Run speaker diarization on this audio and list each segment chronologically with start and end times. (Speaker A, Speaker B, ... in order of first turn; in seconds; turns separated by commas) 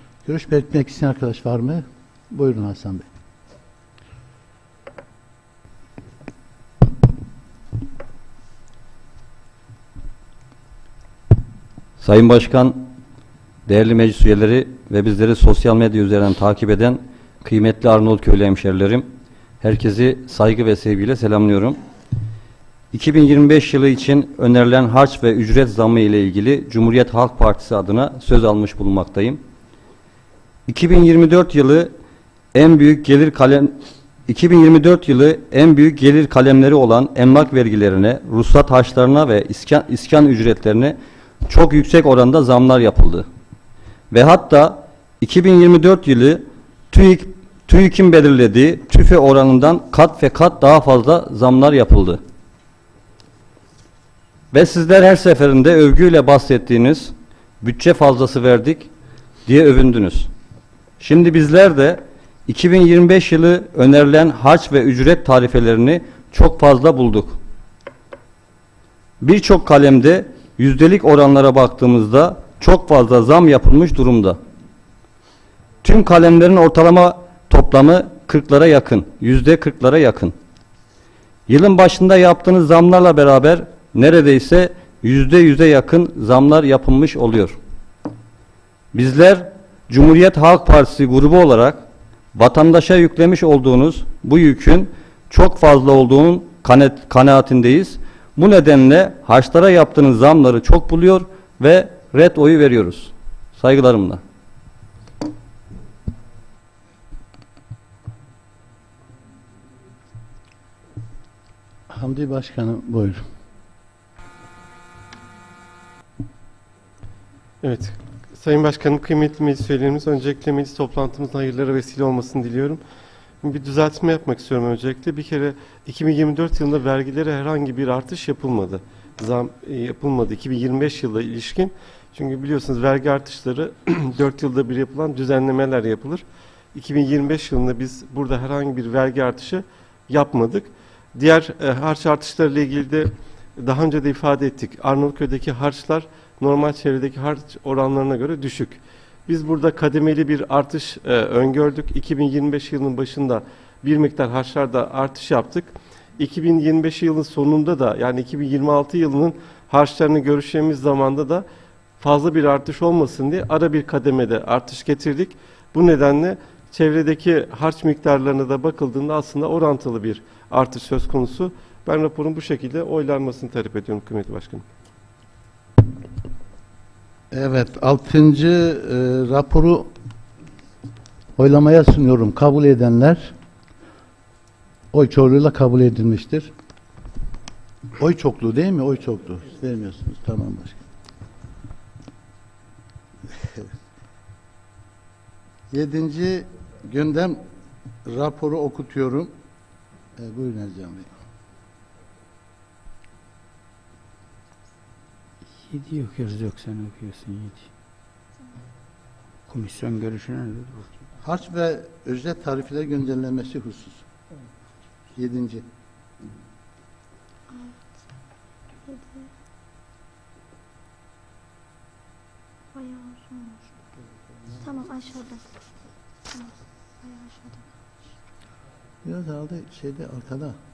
Speaker A: 0.2-3.1, Speaker B: 12.0-12.9, Speaker B: 13.7-19.1, Speaker B: 19.6-21.8, Speaker B: 22.9-29.4, Speaker B: 30.7-31.9, Speaker B: 32.5-43.3, Speaker B: 44.1-52.2, Speaker B: 54.5-58.9, Speaker B: 59.5-60.3, Speaker B: 61.0-67.4, Speaker B: 69.2-74.4, Speaker B: 75.8-80.4, Speaker B: 81.5-87.6, Speaker B: 88.9-104.2, Speaker A: 111.9-113.2, Speaker C: 117.6-122.8, Speaker C: 123.4-161.4, Speaker C: 162.0-174.7, Speaker A: 177.3-179.9, Speaker A: 181.4-183.3, Speaker A: 184.9-186.5, Speaker A: 188.0-190.8, Speaker A: 193.3-193.7, Speaker A: 195.7-197.4, Speaker A: 198.1-199.3, Speaker A: 200.2-201.1, Speaker D: 205.7-207.7, Speaker D: 209.5-210.8, Speaker A: 211.2-214.1, Speaker A: 215.2-215.7, Speaker E: 217.5-217.8, Speaker E: 218.9-219.3, Speaker E: 222.7-223.6, Speaker E: 224.6-225.4, Speaker E: 226.3-227.6, Speaker A: 229.0-230.6